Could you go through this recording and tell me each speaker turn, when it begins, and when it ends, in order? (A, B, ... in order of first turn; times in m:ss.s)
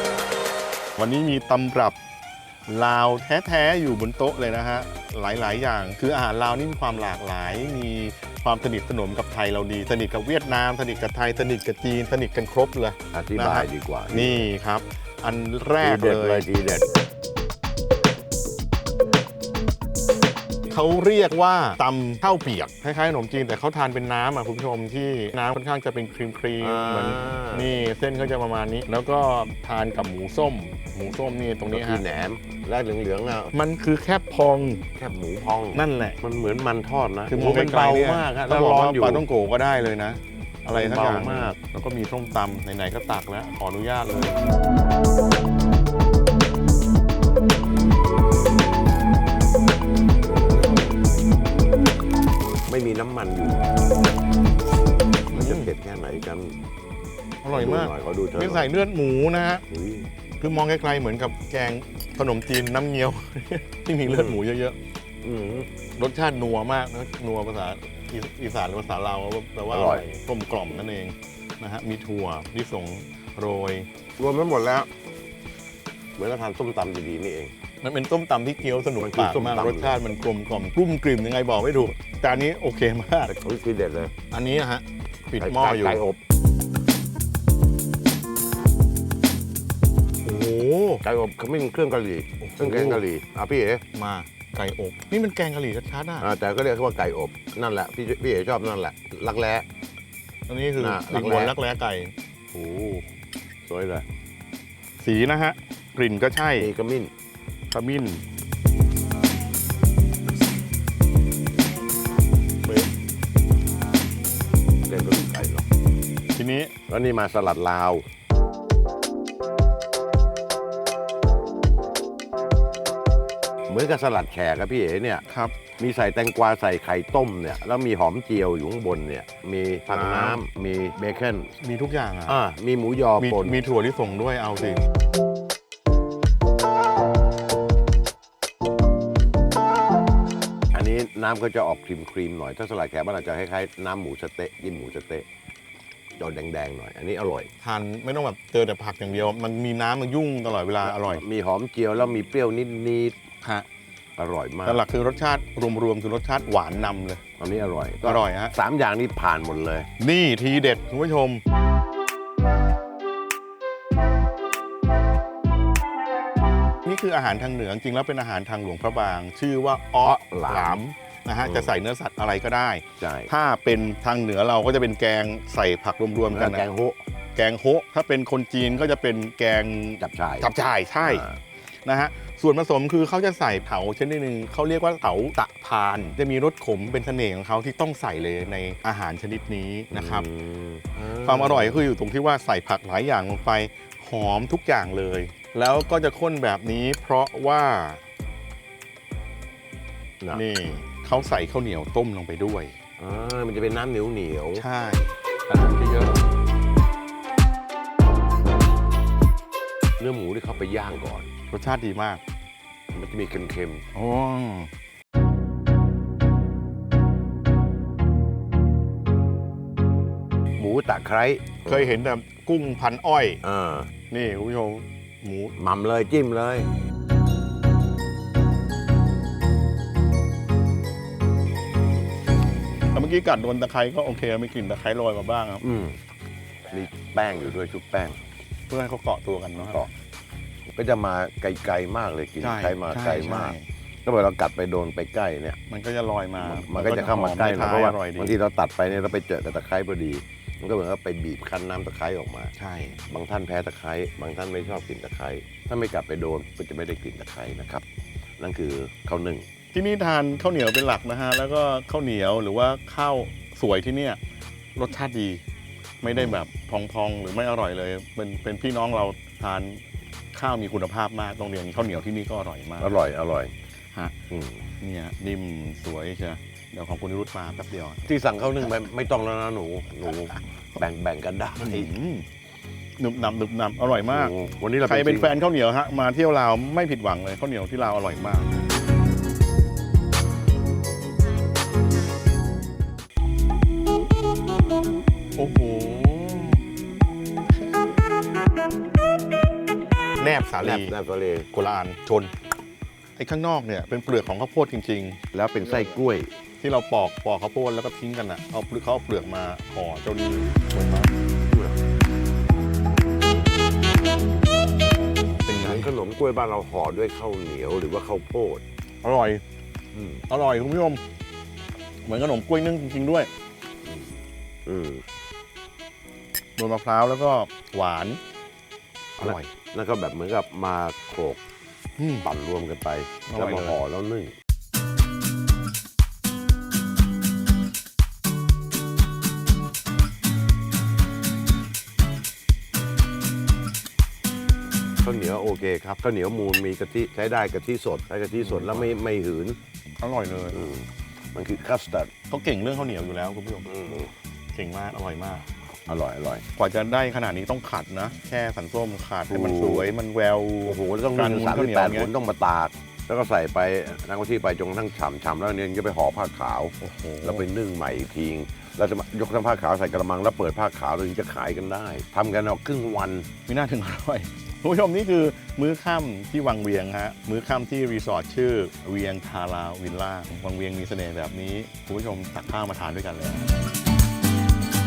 0:01.0-0:02.0 A
0:02.7-0:16.5 A
0:13.1-0:14.5 B
0:15.8-0:16.9 B
0:20.7-0:32.0 A
0:26.6-0:27.7 B
0:31.7-0:33.5 B
0:33.5-0:34.8 A
0:35.0-0:39.3 B
0:35.7-0:36.2 A
0:37.3-0:44.4 A
0:40.7-0:41.6 B
0:52.7-0:53.6 B
0:55.3-0:56.6 B
0:55.3-0:55.7 A
0:57.4-0:59.6 A
0:57.5-0:58.7 B
0:59.7-1:00.1 B
1:00.4-1:04.8 A
1:04.0-1:04.4 B
1:05.2-1:05.7 B
1:06.0-1:13.9 A
1:09.7-1:10.1 B
1:14.2-1:14.9 B
1:16.2-1:17.5 B
1:17.8-1:23.3 A
1:19.0-1:20.0 B
1:23.3-1:24.1 B
1:24.3-1:26.0 A
1:25.4-1:26.2 B
1:30.2-1:31.0 A
1:31.0-1:33.8 B
1:32.4-1:33.0 A
1:33.9-1:36.3 A
1:36.2-1:39.7 B
1:40.5-1:42.1 A
1:40.8-1:41.6 B
1:42.5-1:43.1 B
1:43.6-1:44.0 B
1:45.0-1:46.7 A
1:46.6-1:47.1 B
1:47.7-1:48.2 A
1:54.8-1:55.6 B
1:56.3-1:56.7 A
1:56.9-1:58.0 B
2:03.7-2:05.2 B
2:05.2-2:05.6 A
2:05.8-2:11.6 B
2:09.9-2:10.4 A
2:11.6-2:12.4 A
2:12.3-2:13.6 B
2:13.2-2:14.8 A
2:20.7-2:25.3 B
2:26.2-2:27.5 B
2:27.6-2:31.2 A
2:30.8-2:33.2 B
2:33.4-2:33.7 A
2:34.2-2:34.9 B
2:34.6-2:37.2 A
2:37.4-2:39.9 B
2:38.0-2:38.6 A
2:40.0-2:41.4 A
2:46.8-2:56.7 A
2:50.0-2:50.8 B
2:51.4-2:51.7 B
2:53.0-2:53.3 B
2:56.3-2:57.0 B
2:57.4-3:01.3 A
3:00.0-3:01.4 B
3:01.8-3:10.3 A
3:09.9-3:11.9 B
3:11.2-3:18.0 A
3:20.3-3:22.8 A
3:23.0-3:24.7 B
3:24.6-3:25.1 A
3:25.5-3:26.1 B
3:30.0-3:31.3 B
3:31.5-3:32.2 A
3:32.9-3:33.9 B
3:33.9-3:34.7 A
3:40.6-3:42.0 B
3:41.6-3:43.4 A
3:43.4-3:43.9 B
3:44.1-3:45.6 A
3:45.6-3:46.7 B
3:52.9-3:55.6 A
3:55.6-3:56.0 B
3:56.7-3:58.2 B
3:58.7-3:59.9 A
4:00.7-4:05.6 B
4:02.4-4:03.7 A
4:05.7-4:08.4 A
4:06.4-4:12.5 B
4:12.6-4:13.0 A
4:13.1-4:17.8 B
4:18.4-4:19.5 B
4:19.7-4:24.2 A
4:24.8-4:25.4 A
4:26.0-4:33.0 A
4:26.1-4:26.4 B
4:32.8-4:33.5 B
4:34.3-4:34.6 B
4:34.8-4:38.0 A
4:38.1-4:41.9 B
4:41.6-4:42.3 A
4:43.0-4:48.6 A
4:44.1-4:45.4 B
4:55.4-4:56.6 A
5:00.2-5:01.0 A
5:00.6-5:01.5 B
5:01.5-5:02.3 A
5:03.2-5:05.2 A
5:05.3-5:06.3 B
5:06.6-5:11.1 A
5:11.5-5:11.8 B
5:15.5-5:15.9 A
5:15.5-5:18.6 B
5:19.0-5:19.4 A
5:19.9-5:20.2 B
5:20.3-5:21.0 A
5:22.0-5:23.3 A
5:23.8-5:25.0 B
5:26.6-5:28.2 A
5:29.2-5:31.4 B
5:29.2-5:29.5 A
5:32.0-5:32.3 A
5:32.2-5:34.4 B
5:33.3-5:33.8 A
5:45.0-5:49.6 B
5:48.4-5:48.9 A
5:50.0-5:50.6 A
5:50.5-5:52.1 B
5:52.3-5:53.7 A
5:53.7-5:54.1 B
5:54.5-5:55.4 A
5:55.9-5:56.4 B
5:56.5-6:02.1 A
5:59.3-5:59.9 B
6:00.6-6:13.3 B
6:06.8-6:07.5 A
6:13.5-6:23.5 A